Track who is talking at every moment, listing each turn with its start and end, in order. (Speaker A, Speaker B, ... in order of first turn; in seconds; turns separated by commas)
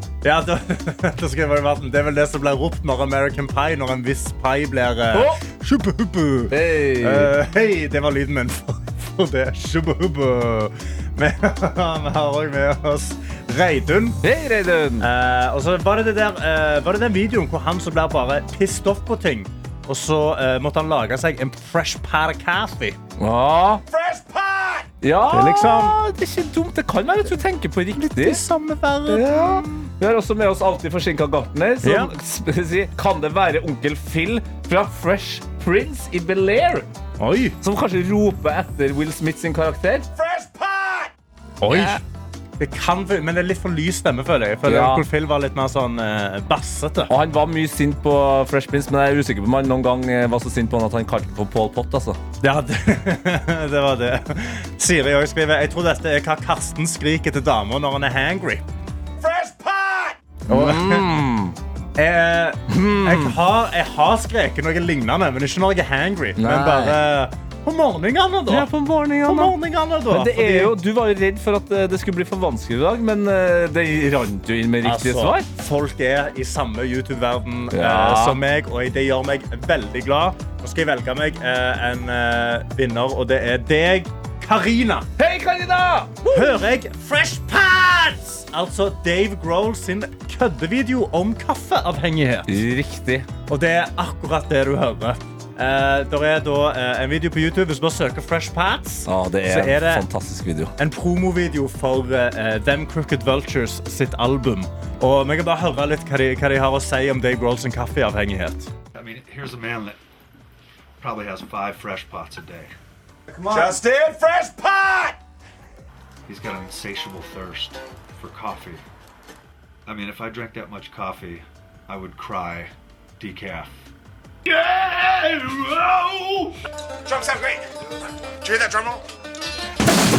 Speaker A: 0.2-14.2, Speaker B: 5.1-5.4, Speaker B: 6.5-7.3, Speaker B: 14.2-15.1, Speaker A: 15.0-23.0, Speaker B: 23.2-23.8, Speaker C: 23.9-24.9, Speaker B: 25.0-28.4, Speaker A: 25.3-26.0, Speaker A: 27.9-29.9, Speaker B: 29.1-36.9, Speaker A: 31.8-32.1, Speaker A: 37.2-37.6, Speaker B: 37.6-40.1, Speaker C: 40.1-41.1, Speaker A: 41.6-42.0, Speaker B: 41.7-42.0, Speaker A: 42.6-47.1, Speaker B: 44.6-45.0, Speaker B: 47.1-52.2, Speaker A: 52.4-58.6, Speaker C: 59.2-60.2, Speaker A: 60.5-61.0, Speaker B: 60.5-61.5, Speaker A: 62.0-68.7, Speaker B: 62.7-63.4, Speaker B: 66.4-67.0, Speaker B: 68.5-69.5, Speaker A: 69.2-70.7, Speaker B: 70.1-75.5, Speaker A: 74.8-85.1, Speaker B: 77.7-78.4, Speaker B: 85.2-86.6, Speaker A: 86.3-92.5, Speaker B: 92.5-93.3, Speaker A: 93.5-100.1, Speaker B: 99.0-100.7, Speaker A: 100.8-108.7, Speaker D: 108.9-110.0, Speaker D: 111.0-112.7, Speaker C: 113.3-115.2, Speaker D: 113.5-113.8, Speaker D: 116.3-118.8, Speaker D: 119.8-123.8, Speaker D: 125.8-126.5, Speaker C: 127.0-127.6, Speaker C: 128.4-129.0